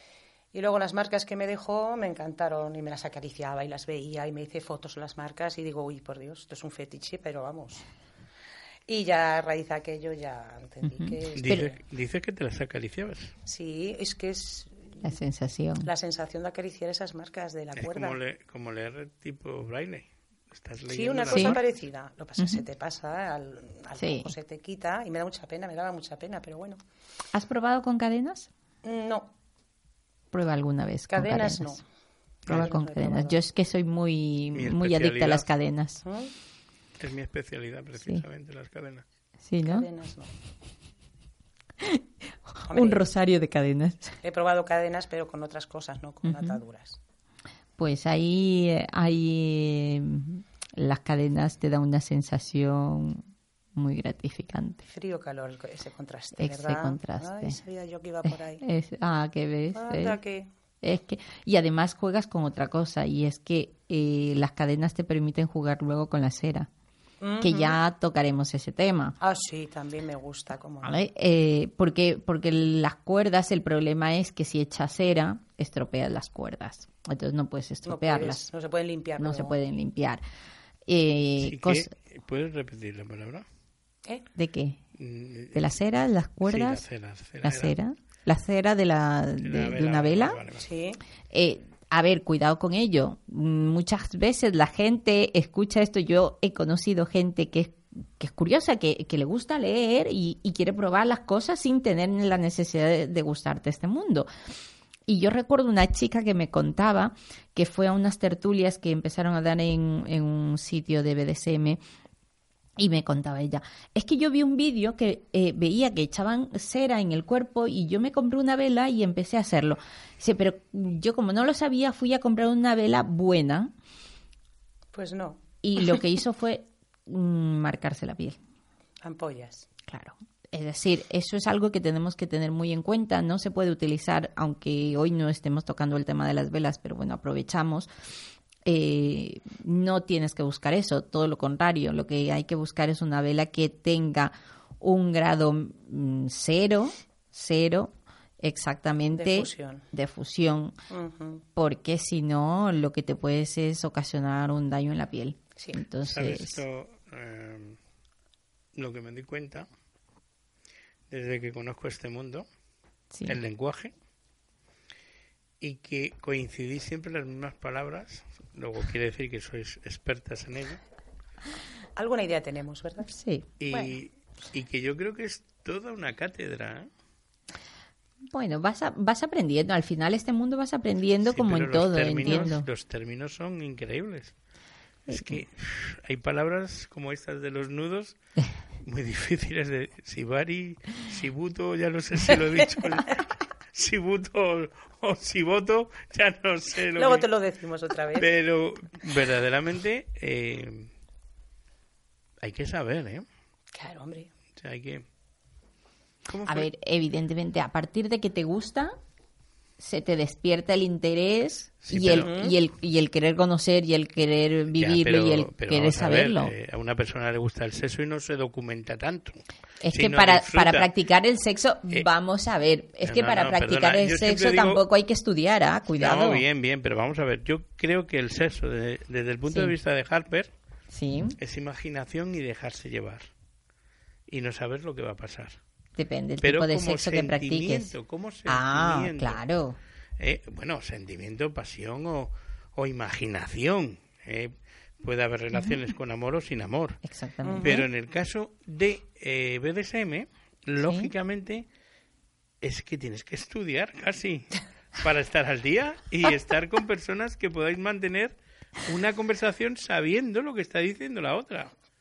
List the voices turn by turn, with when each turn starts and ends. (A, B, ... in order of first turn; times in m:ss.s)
0:00.5-0:07.8 A
0:08.9-0:11.8 A
0:10.9-0:11.7 B
0:11.4-0:13.3 C
0:13.5-0:15.1 A
0:15.0-0:15.9 B
0:15.8-0:18.2 A
0:17.8-0:21.6 C
0:20.9-0:26.8 A
0:21.3-0:21.6 B
0:24.0-0:24.3 B
0:27.3-0:28.5 B
0:28.8-0:29.3 A
0:30.3-0:31.8 B
0:31.1-0:31.8 A
0:32.5-0:32.7 C
0:32.5-0:33.4 A
0:32.5-0:36.0 B
0:34.5-0:35.5 C
0:36.0-0:36.3 A
0:37.0-0:39.0 C
0:39.4-0:39.9 B
0:39.6-0:40.3 A
0:41.8-0:44.2 B
0:42.7-0:43.1 A
0:44.2-0:47.0 A
0:46.2-0:46.6 B
0:47.8-0:53.2 B
0:53.8-0:54.8 B
0:54.8-0:58.6 A
0:56.4-0:57.6 B
0:58.6-1:00.2 B
0:59.7-1:00.5 A
1:00.8-1:06.7 B
1:07.2-1:07.8 A
1:07.4-1:09.2 B
1:09.2-1:11.0 A
1:10.8-1:18.4 B
1:17.8-1:19.6 A
1:19.2-1:20.2 B
1:20.9-1:21.9 B
1:21.4-1:23.4 C
1:24.4-1:24.8 B
1:25.0-1:25.7 C
1:25.5-1:26.8 B
1:26.4-1:27.8 C
1:27.4-1:30.4 B
1:29.4-1:30.7 C
1:30.6-1:31.0 A
1:31.3-1:44.3 B
1:45.1-1:51.8 B
1:52.8-2:03.7 B
2:04.9-2:06.0 A
2:05.6-2:08.4 B
2:09.0-2:09.7 A
2:09.9-2:17.9 B
2:18.6-2:30.8 B
2:29.1-2:29.8 A
2:30.9-2:31.4 A
2:31.6-2:36.6 B
2:35.6-2:35.8 A
2:36.0-2:37.8 C
2:38.8-2:39.7 C
2:41.1-2:42.5 C
2:43.1-2:43.4 B
2:43.3-2:43.9 C
2:45.6-2:50.8 C
2:52.0-2:53.1 A
2:53.1-2:53.5 B
2:53.6-2:56.9 C
2:58.3-3:02.7 B
3:01.3-3:04.3 C
3:05.1-3:08.2 C
3:05.1-3:05.4 B
3:08.8-3:17.3 C
3:17.0-3:18.3 A
3:18.2-3:20.9 C
3:22.4-3:23.2 C
3:23.7-3:24.3 A
3:24.6-3:25.0 C
3:26.3-3:26.7 C
3:26.5-3:29.0 B
3:29.8-3:36.5 B
3:31.8-3:32.3 C
3:32.1-3:32.6 A
3:34.8-3:40.9 C
3:39.8-3:46.4 B
3:43.0-3:44.8 C
3:46.0-3:50.5 C
3:49.5-3:49.8 B
3:50.9-3:51.4 B
3:51.4-3:53.3 C
3:54.3-3:55.6 C
3:56.0-3:58.0 B
3:56.4-3:59.4 C
3:58.5-3:59.8 B
4:00.2-4:07.0 C
4:07.0-4:07.9 B
4:07.4-4:07.8 A
4:07.6-4:11.6 C
4:10.8-4:11.1 B
4:12.6-4:21.7 C